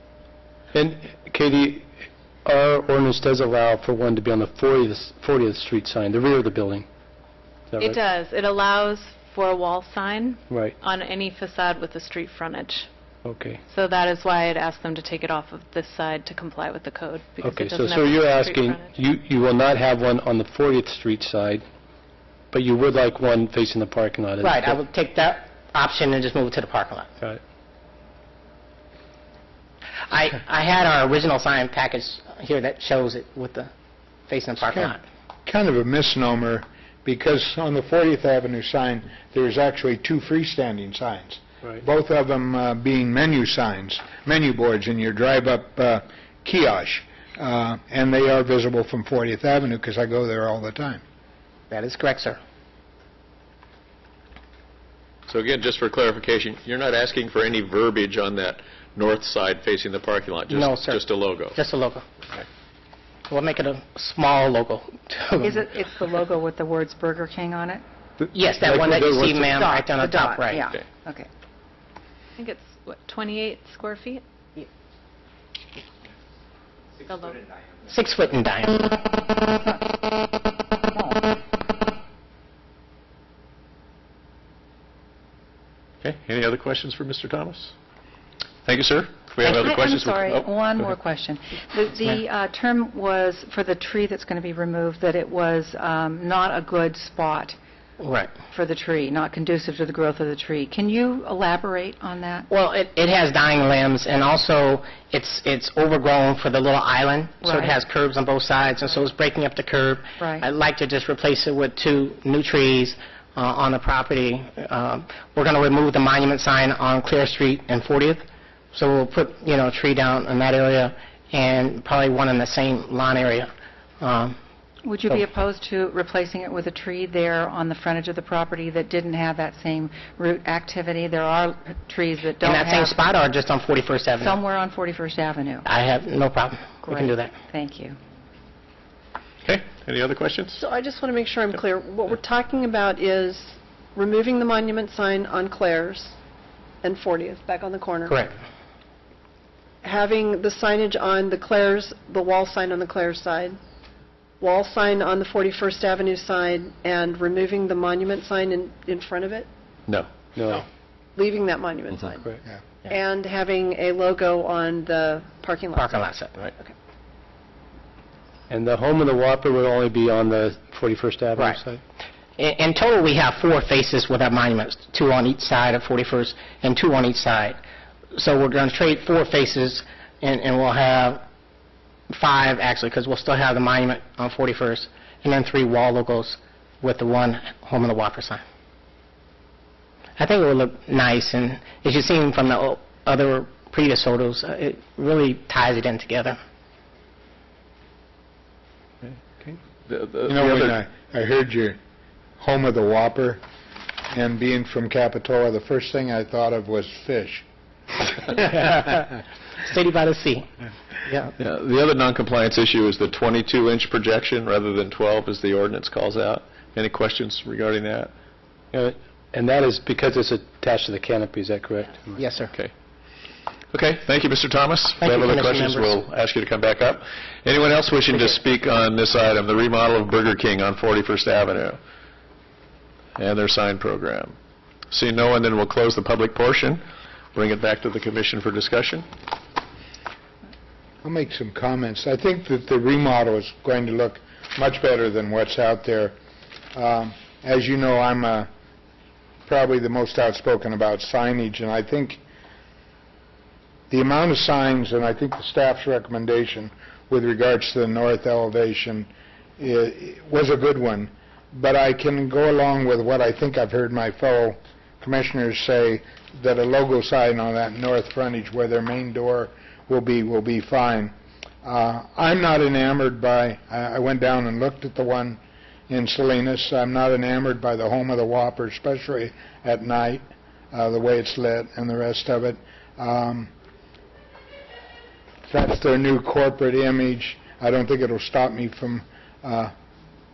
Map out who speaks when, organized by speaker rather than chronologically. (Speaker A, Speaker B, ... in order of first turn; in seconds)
Speaker A: 0.7-1.9, 2.5-6.9, 7.7-8.0, 10.5-10.8, 13.2-13.6, 17.4-21.6, 22.5-24.8, 68.3-69.5, 160.3-160.7, 168.5-171.8, 218.7-222.2
Speaker B: 7.8-12.9, 13.7-18.9, 72.4-74.2, 77.1-77.5
Speaker C: 24.4-27.1, 30.1-33.7, 34.3-35.0, 51.7-52.4, 60.5-61.0, 61.5-62.1, 63.3-65.8, 68.3-70.7, 77.9-79.0, 98.0-98.3, 102.5-123.5, 124.0-124.4, 132.4-134.4, 135.7-137.3, 148.1-148.3, 165.7-166.3, 172.4-177.6, 178.1-181.2, 182.1-188.4, 190.2-196.4, 208.3-210.5, 211.1-211.3, 222.2-222.5, 225.0-226.1
Speaker D: 34.7-35.0, 35.5-51.0, 200.3-201.8, 202.4-203.4, 204.1-207.4, 241.0-246.2, 246.7-248.5, 249.5-252.2, 253.9-283.5, 285.5-289.7
Speaker E: 55.3-61.6, 86.0-87.7, 88.7-90.4, 139.4-140.5, 199.4-200.8, 211.4-218.1, 223.7-231.8, 233.2-234.4, 234.9-236.8, 237.3-239.1
Speaker F: 65.4-67.8, 69.5-71.3, 79.4-80.0, 80.9-81.3, 89.4-97.6, 98.5-102.5, 107.4-107.8, 110.2-110.5, 124.8-133.0, 134.2-135.7, 136.8-138.0
Speaker G: 140.6-146.2, 146.8-148.2, 149.8-153.6, 154.4-159.5, 161.2-162.3, 162.9-166.7